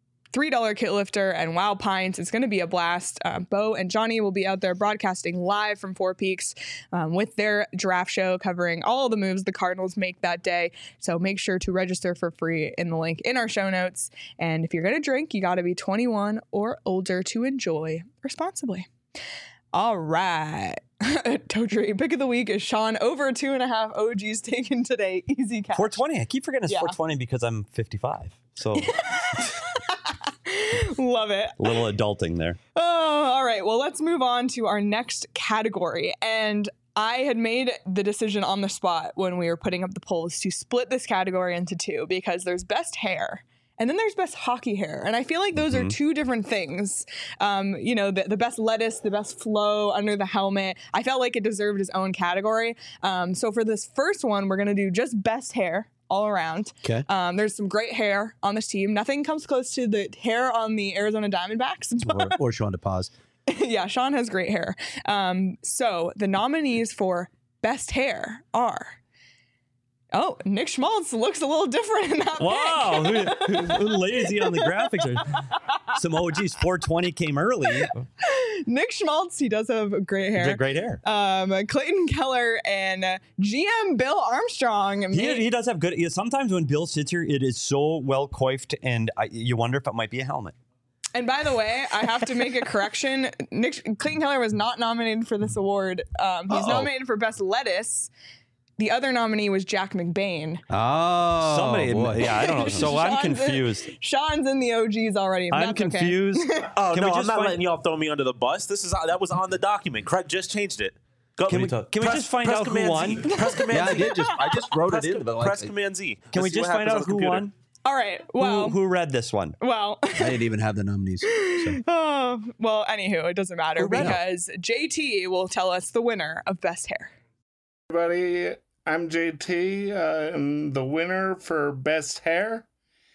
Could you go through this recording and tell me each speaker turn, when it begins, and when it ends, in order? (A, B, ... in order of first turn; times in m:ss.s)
0:00.3-0:18.9 A
0:19.7-0:26.0 A
0:25.7-0:29.4 B
0:26.7-0:26.9 A
0:28.8-0:31.8 A
0:31.6-0:32.6 B
0:32.8-1:02.4 A
0:45.6-0:45.9 B
1:02.0-1:03.1 C
1:03.5-1:09.0 A
1:10.1-1:14.9 A
1:12.4-1:18.0 B
1:17.8-1:25.4 A
1:20.4-1:21.0 B
1:25.1-1:30.5 B
1:31.1-1:38.1 A
1:38.8-1:40.6 A
1:40.7-1:42.7 C
1:41.4-1:43.9 B
1:42.2-1:46.7 A
1:45.5-1:47.6 B
1:46.7-1:57.5 D
1:51.5-1:52.1 C
1:51.5-1:53.4 B
1:53.3-1:54.4 A
1:53.7-1:55.7 C
1:56.3-1:57.5 B
1:57.8-1:58.8 A
1:58.4-1:59.6 B
1:59.6-2:00.4 A
2:00.2-2:01.8 C
2:01.2-2:07.1 A
2:03.8-2:04.2 B
2:07.9-2:12.6 E